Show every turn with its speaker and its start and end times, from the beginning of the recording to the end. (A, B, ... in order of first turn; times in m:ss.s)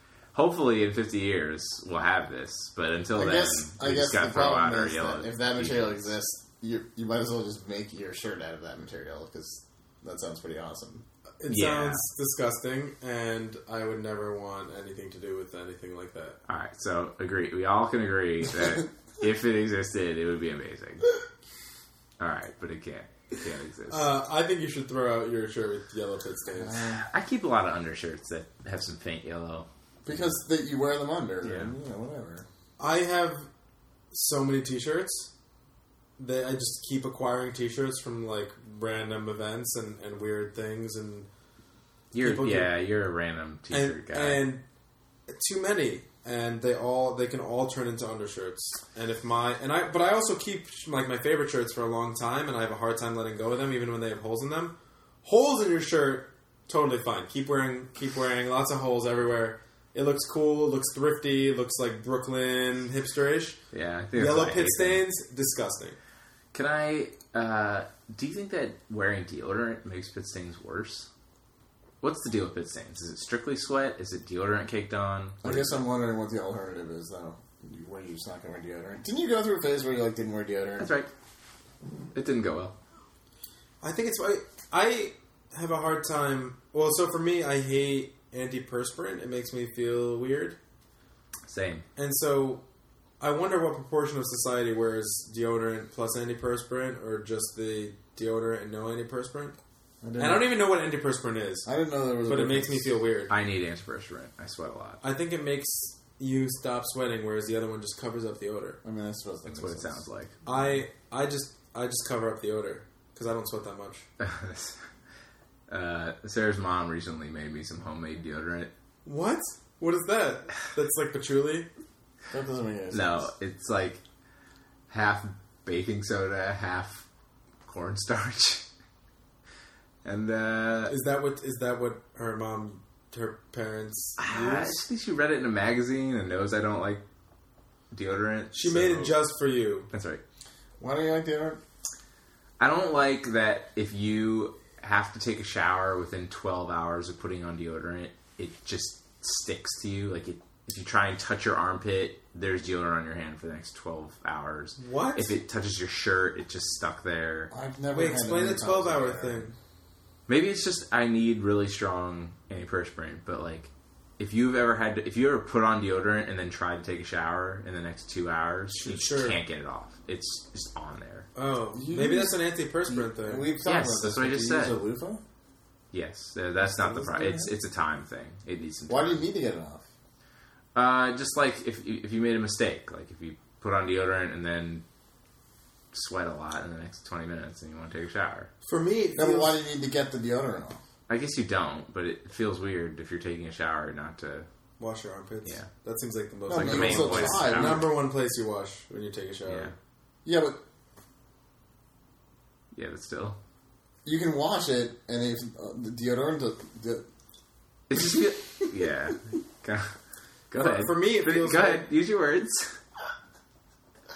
0:00.3-0:06.1 A
0:03.2-0:11.0 B
0:11.4-0:16.4 C
0:11.5-0:12.0 A
0:16.5-0:21.1 A
0:22.2-0:24.1 A
0:23.9-0:26.9 C
0:26.7-0:30.2 A
0:30.0-0:32.4 B
0:31.4-0:31.7 A
0:32.8-0:33.5 C
0:34.1-0:35.3 C
0:36.2-0:41.3 C
0:42.1-0:44.4 A
0:42.2-0:42.7 C
0:43.7-0:44.6 C
0:45.3-1:03.6 C
1:03.7-1:05.0 A
1:04.1-1:06.0 C
1:06.5-1:11.1 A
1:12.0-1:15.8 A
1:15.4-1:20.9 B
1:20.8-1:21.1 A
1:22.1-1:22.7 A
1:23.8-1:30.6 C
1:31.5-1:31.8 A
1:32.0-1:32.6 C
1:33.2-1:39.6 C
1:40.0-1:40.5 B
1:40.2-1:41.7 C
1:41.6-1:42.9 B
1:42.3-1:43.3 C
1:43.3-1:45.0 A
1:45.0-1:48.8 C
1:48.8-1:50.0 B
1:49.4-1:50.4 A
1:50.4-1:54.0 C
1:54.2-1:54.8 A
1:55.7-1:58.7 A
1:59.0-2:01.7 C
2:02.3-2:03.3 B
2:02.9-2:04.0 A
2:04.9-2:07.0 A
2:07.6-2:08.6 A
2:10.0-2:11.0 A
2:10.9-2:14.8 C
2:14.2-2:17.0 A
2:17.9-2:19.2 A
2:18.5-2:19.9 C
2:19.9-2:20.2 A
2:20.8-2:21.6 B
2:22.6-2:37.5 A
2:34.8-2:35.3 C
2:37.5-2:39.5 B
2:37.9-2:39.5 C
2:40.3-2:51.3 A
2:48.7-2:49.4 C
2:51.4-2:53.5 C
2:51.7-2:55.2 B
2:53.6-2:54.8 A
2:55.9-2:59.2 A
2:56.6-2:57.5 B
2:58.9-2:59.8 B
3:00.7-3:04.8 A
3:05.9-3:08.5 A
3:08.6-3:09.6 C
3:09.2-3:10.8 B
3:11.1-3:14.5 A
3:14.8-3:19.7 C
3:15.4-3:15.7 A
3:16.5-3:17.9 B
3:16.5-3:17.9 A
3:19.5-3:19.7 A
3:20.2-3:20.6 B
3:22.7-3:23.4 A
3:24.0-3:27.0 B
3:27.9-3:29.9 A
3:30.5-3:32.8 A
3:30.5-3:31.9 C